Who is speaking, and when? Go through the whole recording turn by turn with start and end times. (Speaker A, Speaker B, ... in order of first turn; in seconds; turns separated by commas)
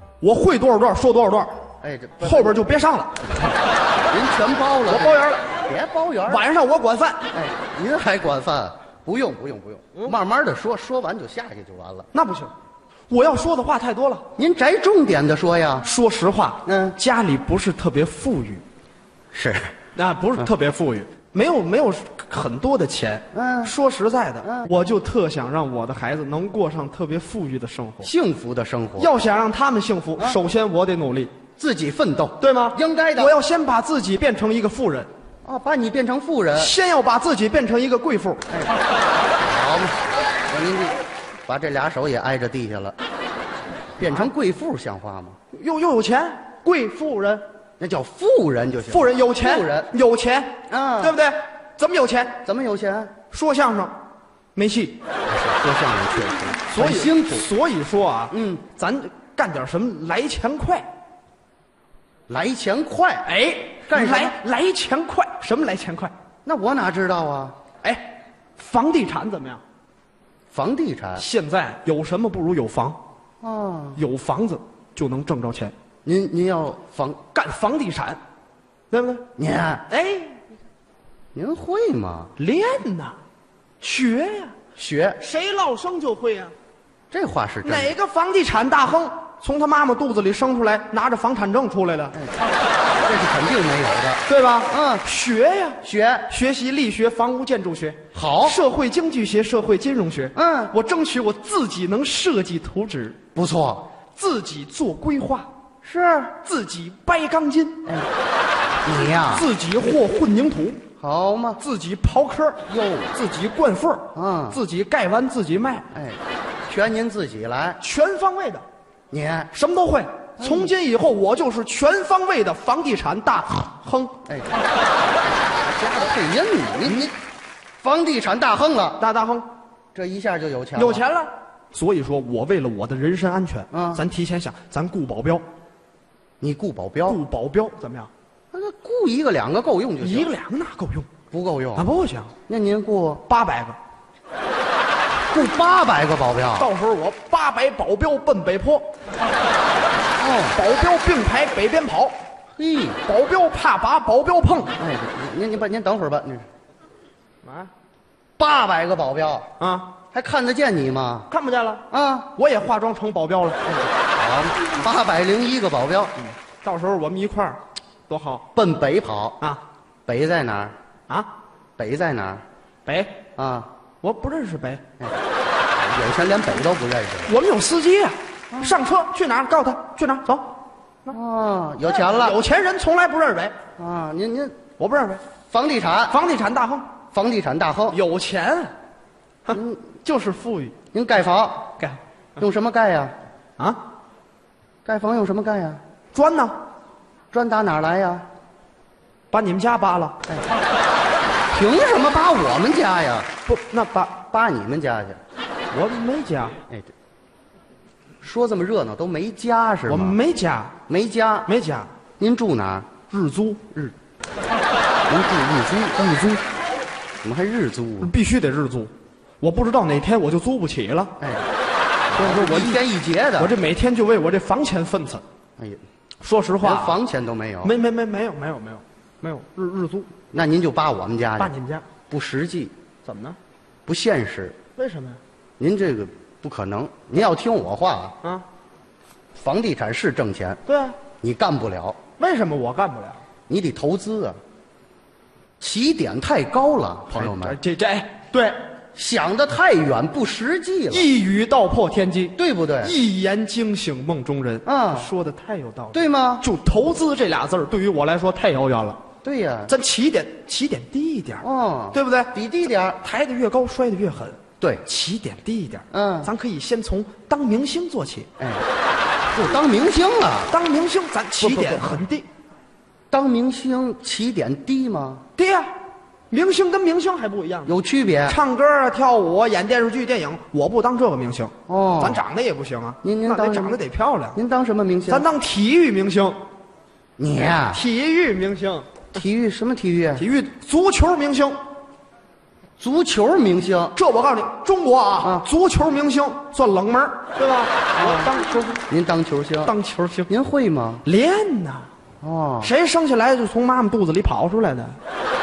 Speaker A: 0.2-1.6, Speaker B: 1.8-2.7, Speaker A: 2.2-3.1, Speaker B: 4.1-6.4, Speaker A: 4.9-5.4, Speaker A: 6.3-7.2, Speaker B: 7.3-12.1, Speaker A: 12.1-12.5, Speaker A: 13.1-14.2, Speaker B: 14.4-15.9, Speaker A: 15.8-18.6, Speaker B: 16.6-17.0, Speaker B: 19.3-19.7, Speaker A: 19.9-28.1, Speaker B: 23.3-23.7, Speaker B: 24.4-24.7, Speaker B: 28.0-29.1, Speaker A: 29.0-31.3, Speaker B: 31.6-33.3, Speaker A: 32.4-35.1, Speaker B: 35.4-36.7, Speaker A: 36.5-38.4, Speaker B: 39.4-43.0, Speaker B: 44.0-45.4, Speaker A: 44.0-44.3, Speaker A: 45.5-47.4, Speaker B: 47.8-49.9, Speaker A: 48.9-52.4, Speaker B: 50.7-51.2, Speaker B: 52.4-53.2, Speaker A: 53.3-53.9, Speaker A: 54.5-55.0, Speaker B: 55.3-57.5, Speaker A: 56.7-60.9, Speaker B: 58.3-58.6, Speaker B: 62.3-63.3, Speaker A: 63.2-66.1, Speaker B: 63.9-64.3, Speaker B: 66.4-67.5, Speaker A: 67.8-69.6, Speaker B: 70.5-71.2, Speaker A: 71.2-73.0, Speaker B: 73.4-74.0, Speaker A: 74.0-75.7, Speaker B: 76.0-77.2, Speaker A: 77.3-78.2, Speaker A: 78.9-79.2, Speaker B: 79.4-79.8, Speaker A: 79.9-80.4, Speaker B: 81.3-82.3, Speaker A: 82.4-83.2, Speaker A: 83.8-84.5, Speaker B: 84.8-85.2, Speaker A: 85.2-86.5, Speaker B: 87.1-87.9, Speaker A: 87.6-92.2, Speaker B: 93.0-95.0, Speaker A: 94.2-103.2, Speaker B: 95.8-96.3, Speaker B: 98.1-98.6, Speaker B: 100.3-100.7, Speaker B: 103.3-103.9, Speaker A: 104.1-105.5, Speaker B: 105.8-106.3, Speaker A: 106.4-107.8, Speaker B: 108.8-109.5, Speaker A: 109.3-110.8, Speaker B: 111.0-111.6, Speaker A: 111.6-115.8, Speaker B: 112.7-113.1, Speaker B: 114.1-114.6, Speaker B: 115.9-117.8, Speaker A: 117.8-118.6, Speaker B: 119.1-119.5, Speaker A: 119.5-124.1, Speaker B: 120.4-120.7, Speaker B: 125.6-127.1, Speaker B: 127.8-129.0, Speaker A: 129.0-129.5, Speaker B: 129.9-131.0, Speaker A: 130.8-135.4, Speaker B: 133.7-134.0, Speaker B: 136.4-137.2, Speaker A: 137.1-138.1, Speaker B: 138.5-140.3, Speaker A: 140.0-141.1, Speaker B: 141.3-141.9, Speaker A: 141.8-142.3, Speaker B: 142.5-143.2, Speaker A: 143.2-143.8, Speaker B: 145.3-146.7, Speaker A: 146.6-148.8, Speaker B: 150.2-150.6, Speaker A: 150.5-152.2, Speaker B: 152.6-153.0, Speaker A: 153.0-154.8, Speaker B: 154.8-156.5, Speaker A: 157.4-157.7, Speaker B: 158.4-159.5, Speaker A: 159.6-159.9, Speaker B: 160.1-161.3, Speaker A: 161.3-161.8, Speaker B: 161.9-162.3, Speaker A: 162.3-163.7, Speaker B: 163.7-166.2, Speaker A: 166.4-168.4, Speaker B: 168.5-169.4, Speaker B: 170.1-170.7, Speaker B: 171.8-172.4, Speaker A: 172.8-173.2, Speaker B: 173.4-173.7, Speaker A: 174.0-174.8, Speaker B: 175.7-177.3, Speaker A: 177.3-180.4, Speaker B: 181.1-182.4, Speaker A: 181.8-183.5, Speaker B: 183.8-184.6, Speaker A: 184.8-185.2, Speaker B: 185.5-186.2, Speaker A: 186.1-186.9, Speaker B: 187.1-188.0, Speaker A: 187.9-188.7, Speaker A: 189.4-190.7, Speaker B: 189.5-189.8, Speaker B: 190.9-191.7, Speaker B: 192.4-193.2, Speaker B: 194.8-195.8, Speaker A: 196.1-196.6, Speaker B: 197.3-198.2, Speaker A: 199.3-200.2, Speaker B: 201.5-203.3, Speaker A: 203.4-204.2, Speaker B: 204.2-205.2, Speaker A: 205.7-206.6, Speaker B: 208.2-210.2, Speaker A: 209.9-210.8, Speaker B: 210.9-211.5, Speaker A: 211.4-211.9, Speaker B: 212.2-213.0, Speaker A: 213.1-213.6, Speaker B: 215.1-216.4, Speaker B: 217.2-218.1, Speaker A: 218.0-221.1, Speaker B: 221.2-221.4, Speaker B: 222.1-223.5, Speaker A: 222.1-225.2, Speaker A: 226.2-227.0, Speaker B: 226.6-227.7, Speaker A: 227.6-230.1, Speaker B: 230.3-231.5, Speaker A: 231.4-231.8, Speaker B: 232.1-232.7, Speaker A: 233.0-233.4, Speaker B: 233.8-234.6, Speaker A: 234.8-235.2, Speaker B: 235.6-238.1, Speaker B: 239.4-240.6, Speaker A: 240.7-241.0, Speaker B: 241.2-242.0, Speaker A: 242.2-243.2, Speaker B: 243.5-244.4, Speaker B: 245.6-247.6, Speaker A: 247.1-248.6, Speaker B: 248.9-251.1, Speaker A: 250.9-259.0, Speaker B: 252.3-252.9, Speaker B: 254.7-255.1, Speaker B: 255.9-256.4, Speaker B: 259.2-259.7, Speaker A: 259.7-268.3, Speaker B: 261.4-263.0, Speaker B: 265.9-266.3, Speaker B: 268.4-268.6, Speaker B: 269.3-270.5, Speaker A: 270.5-272.2, Speaker B: 271.4-272.0, Speaker B: 273.1-275.2, Speaker A: 275.4-275.7, Speaker A: 276.3-284.4, Speaker B: 277.6-278.4, Speaker B: 281.7-282.2, Speaker B: 283.0-283.8, Speaker B: 284.3-285.3, Speaker A: 285.1-286.4, Speaker B: 287.2-287.8, Speaker A: 287.7-289.1, Speaker B: 289.1-290.2, Speaker A: 290.2-291.6, Speaker B: 292.8-293.9, Speaker A: 293.9-298.8, Speaker B: 295.2-295.4, Speaker B: 297.9-299.7, Speaker A: 299.6-300.3, Speaker B: 300.3-301.0, Speaker A: 301.0-301.9, Speaker B: 302.2-302.7, Speaker A: 302.6-304.9